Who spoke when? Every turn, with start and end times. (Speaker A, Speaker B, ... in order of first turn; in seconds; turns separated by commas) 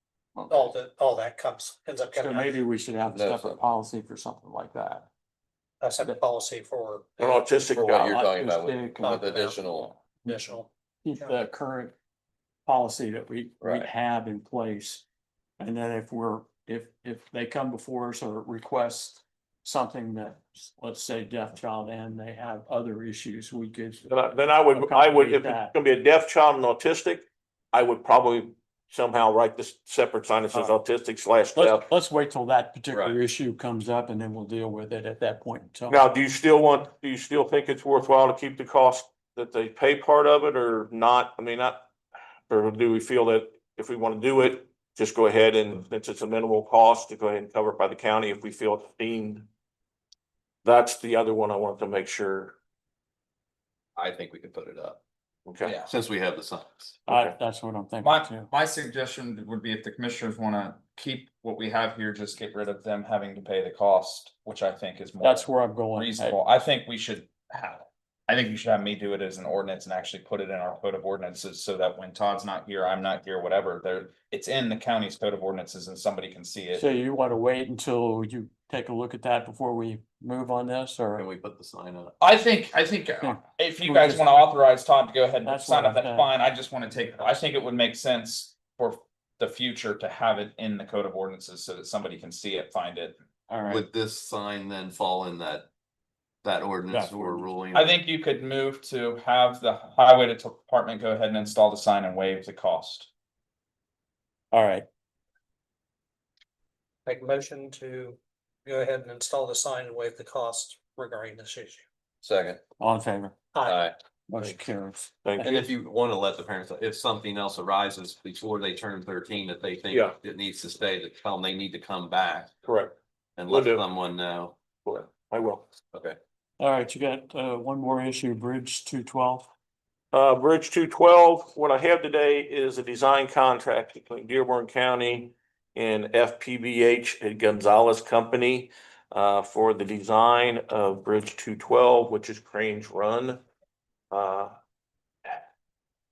Speaker A: 0.4-0.7, Speaker B: 0.5-2.5, Speaker A: 2.1-5.1, Speaker C: 3.1-3.6, Speaker B: 5.8-7.4, Speaker D: 7.2-8.2, Speaker C: 7.7-10.0, Speaker A: 7.8-10.5, Speaker B: 9.0-9.6, Speaker B: 10.3-11.3, Speaker A: 11.0-11.9, Speaker A: 12.7-15.1, Speaker C: 13.6-13.9, Speaker A: 15.6-24.1, Speaker D: 24.1-31.9, Speaker A: 24.7-25.7, Speaker A: 31.6-36.0, Speaker C: 32.9-33.2, Speaker D: 35.9-41.9, Speaker D: 42.5-49.5, Speaker D: 50.6-52.6, Speaker C: 54.0-55.0, Speaker D: 55.5-55.7, Speaker E: 55.6-55.9, Speaker C: 55.9-57.0, Speaker D: 57.1-57.4, Speaker A: 57.1-58.5, Speaker E: 58.0-76.9, Speaker A: 65.2-66.4, Speaker A: 76.7-81.3, Speaker C: 81.2-82.1, Speaker E: 82.2-93.2, Speaker A: 83.2-84.3, Speaker A: 85.4-86.3, Speaker A: 93.5-93.8, Speaker C: 93.7-95.7, Speaker C: 96.4-97.9, Speaker A: 96.9-97.5, Speaker E: 97.7-103.1, Speaker A: 104.5-104.9, Speaker B: 107.1-111.8, Speaker C: 112.2-112.6, Speaker A: 112.8-113.4, Speaker B: 113.5-113.8, Speaker C: 113.7-114.0, Speaker A: 114.3-115.7, Speaker D: 115.2-115.6, Speaker C: 115.4-122.5, Speaker D: 122.6-123.0, Speaker C: 123.4-124.5, Speaker D: 123.5-123.8, Speaker D: 124.8-125.7, Speaker C: 125.9-126.2, Speaker A: 126.6-129.5, Speaker D: 130.1-143.4, Speaker D: 144.1-144.5